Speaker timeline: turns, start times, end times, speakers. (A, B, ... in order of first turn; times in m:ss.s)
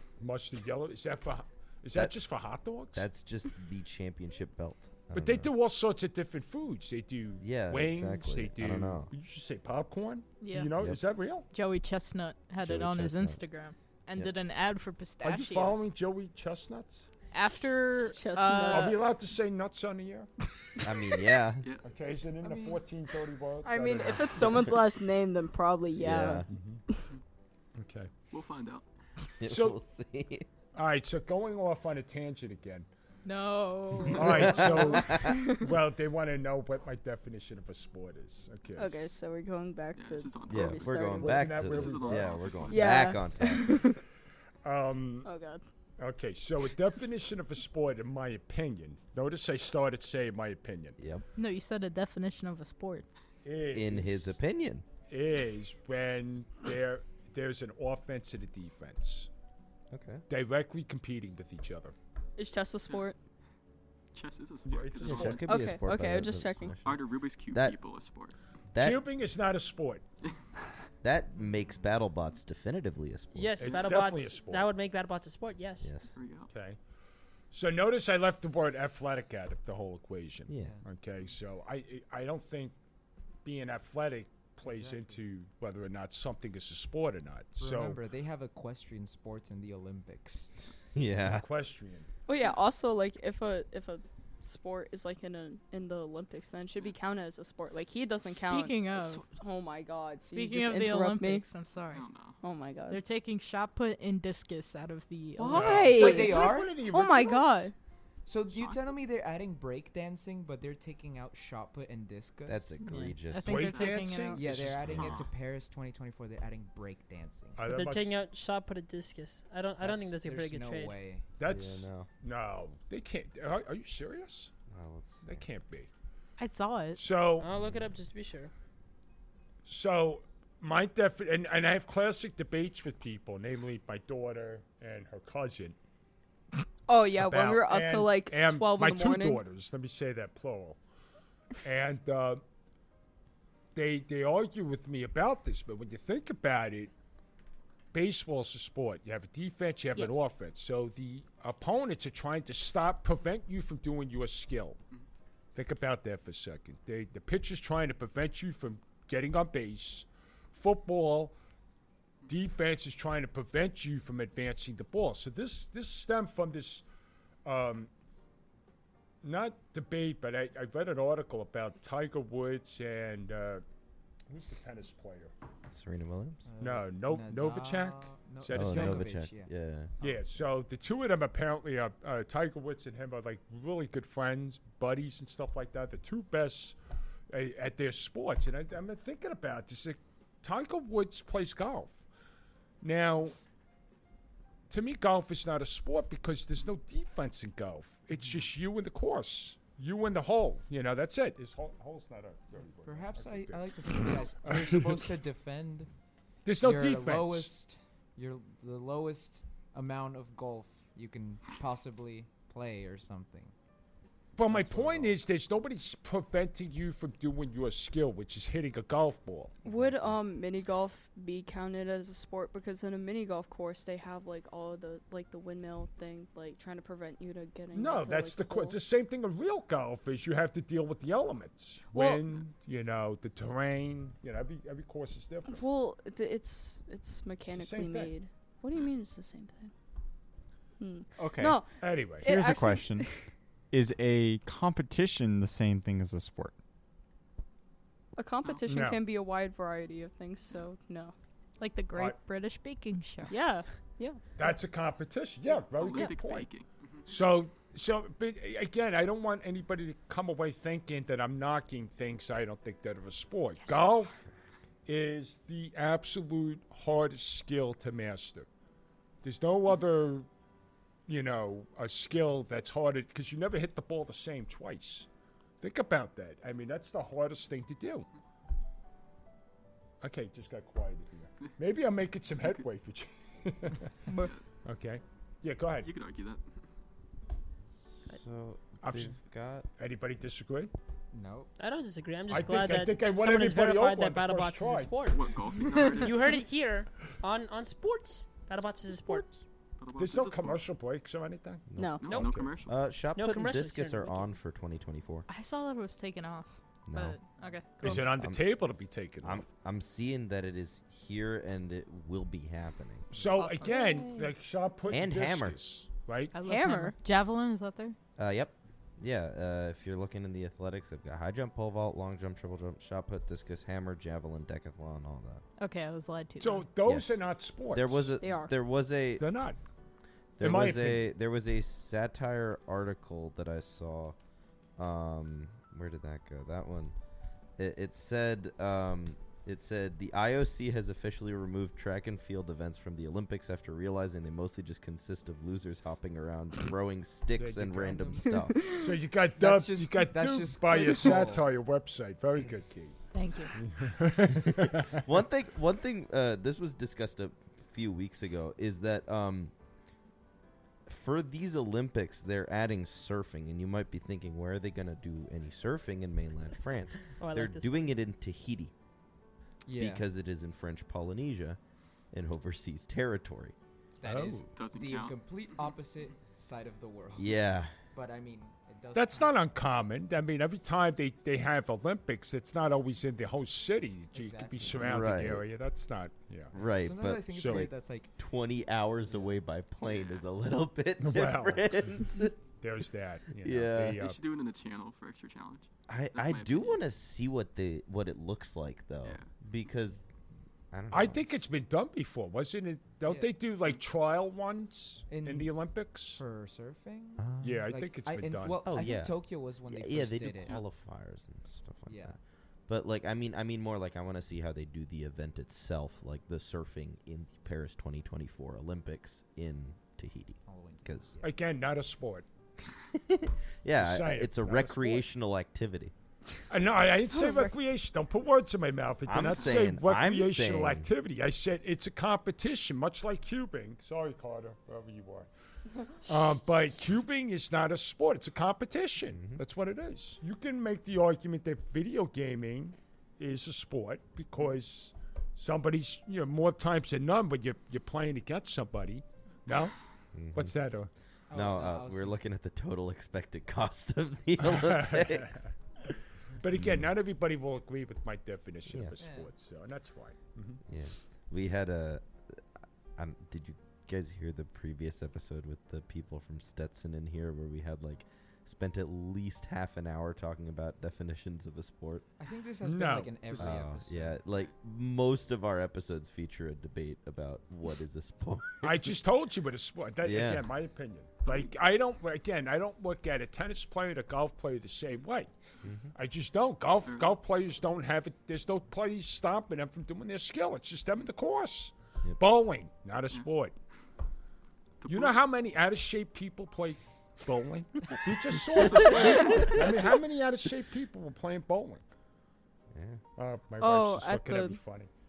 0:00.2-0:03.1 A
0:02.9-0:05.5 B
0:05.1-0:11.5 A
0:07.4-0:09.1 B
0:10.4-0:10.7 C
0:11.5-0:15.9 C
0:12.6-0:13.4 B
0:15.2-0:17.1 A
0:17.3-0:19.0 C
0:18.1-0:19.0 D
0:18.7-0:20.3 A
0:20.8-0:21.7 B
0:21.8-0:24.7 A
0:22.4-0:22.8 E
0:23.6-0:27.0 D
0:26.0-0:26.5 B
0:26.5-0:26.8 A
0:27.8-0:28.1 A
0:28.3-0:28.8 F
0:29.4-0:30.5 B
0:29.4-0:29.8 A
0:30.7-0:32.9 A
0:33.2-0:34.4 C
0:34.1-0:39.1 A
0:34.2-0:35.4 B
0:35.1-0:35.7 D
0:38.8-0:41.6 D
0:40.0-0:43.1 F
0:40.5-0:43.8 B
0:41.2-0:42.9 A
0:42.7-0:44.0 D
0:44.6-0:45.3 A
0:45.2-0:45.6 D
0:46.0-0:51.0 A
0:51.0-0:51.2 B
0:51.4-0:53.1 C
0:53.4-0:54.4 A
0:53.7-0:54.8 B
0:55.1-0:59.3 A
0:59.9-1:00.2 B
1:00.3-1:02.0 A
1:02.4-1:03.2 D
1:04.1-1:05.6 F
1:04.7-1:05.6 A
1:05.0-1:07.8 B
1:05.4-1:06.8 D
1:06.8-1:08.4 F
1:08.7-1:09.0 B
1:08.8-1:10.0 A
1:11.0-1:13.8 B
1:13.3-1:15.9 G
1:13.6-1:14.7 A
1:15.8-1:16.1 B
1:16.2-1:16.5 F
1:16.5-1:16.8 A
1:17.5-1:22.8 A
1:20.5-1:20.8 B
1:20.6-1:20.8 E
1:23.4-1:28.0 A
1:24.6-1:25.2 E
1:27.6-1:30.5 E
1:31.0-1:31.5 B
1:31.2-1:32.1 A
1:32.3-1:41.4 D
1:38.2-1:39.3 C
1:40.3-1:42.0 C
1:41.9-1:42.4 F
1:42.4-1:43.0 D
1:42.9-1:45.9 C
1:45.4-1:47.7 D
1:45.5-1:47.6 A
1:45.9-1:46.8 E
1:48.3-1:53.1 E
1:48.5-1:48.8 F
1:52.5-1:53.7 B
1:52.9-1:54.4 C
1:53.4-1:55.2 A
1:53.5-1:54.2 F
1:54.3-1:57.6 E
1:54.9-1:55.2 B
1:57.6-1:58.2 A
1:57.6-2:01.0 G
1:59.8-2:01.3 E
2:01.4-2:04.5 A
2:01.4-2:02.1 B
2:04.7-2:05.4 B
2:05.2-2:05.9 A
2:06.4-2:07.0 C
2:07.0-2:07.5 A
2:07.4-2:08.5 G
2:07.5-2:07.9 B
2:09.7-2:15.8 A
2:16.9-2:19.4 D
2:17.2-2:20.8 A
2:21.6-2:22.4 A
2:23.8-2:26.9 A
2:27.9-2:34.8 A
2:30.0-2:30.2 D
2:35.6-2:41.4 A
2:42.3-2:46.8 A
2:47.4-2:47.9 A
2:49.2-2:53.6 A
2:54.3-2:55.3 A
2:55.7-2:56.4 B
2:56.4-2:59.5 E
2:56.6-2:59.2 A
2:58.5-2:59.9 B
3:00.0-3:06.8 A
3:07.3-3:12.0 A
3:12.8-3:13.4 A
3:14.7-3:25.0 A
3:18.2-3:18.4 E
3:22.8-3:25.9 E
3:26.4-3:27.5 A
3:26.6-3:33.5 E
3:34.4-3:39.6 A
3:34.5-3:35.2 E
3:39.7-3:48.8 D
3:39.7-3:40.1 B
3:47.7-3:55.6 A
3:51.9-3:52.2 D
3:55.5-3:59.7 D
3:57.5-3:58.1 A
4:00.8-4:03.2 D
4:01.2-4:01.6 H
4:01.8-4:02.3 A
4:02.2-4:03.1 H
4:03.7-4:06.6 H
4:08.2-4:11.1 D
4:08.7-4:09.0 A
4:11.6-4:13.4 C
4:13.3-4:14.2 D
4:14.4-4:16.5 A
4:15.8-4:17.0 F
4:17.1-4:24.2 A
4:24.9-4:28.5 A
4:29.2-4:30.3 A
4:31.1-4:35.1 A
4:35.6-4:38.1 A
4:40.0-4:43.9 A
4:44.6-4:45.9 A
4:45.8-4:46.4 F
4:48.1-4:49.7 B
4:48.8-4:49.2 A
4:49.8-4:50.7 A
4:51.1-4:51.5 E
4:51.6-4:59.4 G
4:52.3-4:55.0 A
4:55.0-4:56.2 F
4:59.8-5:00.7 F
5:00.0-5:02.5 A
5:01.7-5:02.0 B
5:01.8-5:02.1 D
5:02.0-5:02.8 F
5:02.6-5:05.3 B
5:03.1-5:04.3 G
5:05.3-5:08.1 C
5:06.9-5:07.2 B
5:07.8-5:09.5 A
5:07.8-5:08.6 B
5:09.2-5:13.1 B
5:13.1-5:16.4 A
5:13.4-5:14.2 C
5:14.9-5:15.6 B
5:16.3-5:18.0 C
5:16.4-5:17.0 D
5:18.2-5:25.4 B
5:25.6-5:26.7 C
5:26.4-5:28.2 A
5:26.8-5:27.2 B
5:27.7-5:29.3 B
5:28.2-5:28.5 D
5:29.2-5:29.6 A
5:30.4-5:34.2 B
5:30.4-5:31.1 A
5:34.8-5:37.0 B
5:37.6-5:48.6 B
5:47.4-5:53.0 A
5:48.6-5:48.8 D
5:49.4-5:51.5 E
5:53.1-5:53.5 C
5:53.6-5:55.0 A
5:54.3-5:59.5 B
6:00.9-6:08.7 B
6:07.2-6:07.9 G
6:09.7-6:10.0 E
6:09.8-6:11.6 B
6:12.1-6:13.6 B
6:14.0-6:19.4 E
6:14.0-6:14.5 A
6:14.6-6:15.7 F
6:17.2-6:17.7 B
6:18.9-6:26.6 A
6:24.1-6:25.1 E
6:24.7-6:25.4 B
6:26.5-6:32.4 B
6:26.8-6:28.1 E
6:27.3-6:27.7 A
6:29.1-6:29.4 E
6:29.8-6:30.2 F
6:31.0-6:31.9 A
6:32.6-6:34.2 A
6:33.4-6:34.0 B
6:34.0-6:36.8 F
6:35.9-6:40.0 B
6:39.0-6:39.3 F
6:40.7-6:41.3 B
6:40.9-6:46.2 A
6:43.1-6:43.3 E
6:45.1-6:45.6 E
6:46.2-6:50.6 E
6:47.2-6:47.6 B
6:47.4-6:48.7 A
6:48.6-6:52.2 B
6:51.9-6:52.2 E
6:52.7-7:01.1 B
7:00.5-7:01.3 E
7:01.2-7:02.3 A
7:03.0-7:05.9 B
7:03.8-7:05.1 A
7:06.5-7:15.3 A
7:09.0-7:10.9 B
7:16.0-7:29.8 A
7:19.1-7:19.4 B
7:30.2-7:30.5 B
7:30.3-7:30.9 A
7:31.3-7:32.2 E
7:31.3-7:35.4 B
7:34.4-7:35.5 A
7:36.4-7:40.6 A
7:36.6-7:36.9 B
7:38.7-7:39.0 B
7:39.0-7:39.3 E
7:40.7-7:42.4 B
7:43.0-7:52.1 B
7:52.2-7:54.2 E
7:52.6-7:53.5 A
7:53.4-7:58.9 B
7:58.6-8:05.3 A
8:00.0-8:00.5 B
8:05.6-8:05.9 B
8:06.0-8:13.5 A
8:06.8-8:07.2 F
8:14.8-8:15.2 F
8:14.9-8:21.8 A
8:22.7-8:23.0 B
8:23.2-8:24.9 A
8:23.6-8:24.6 D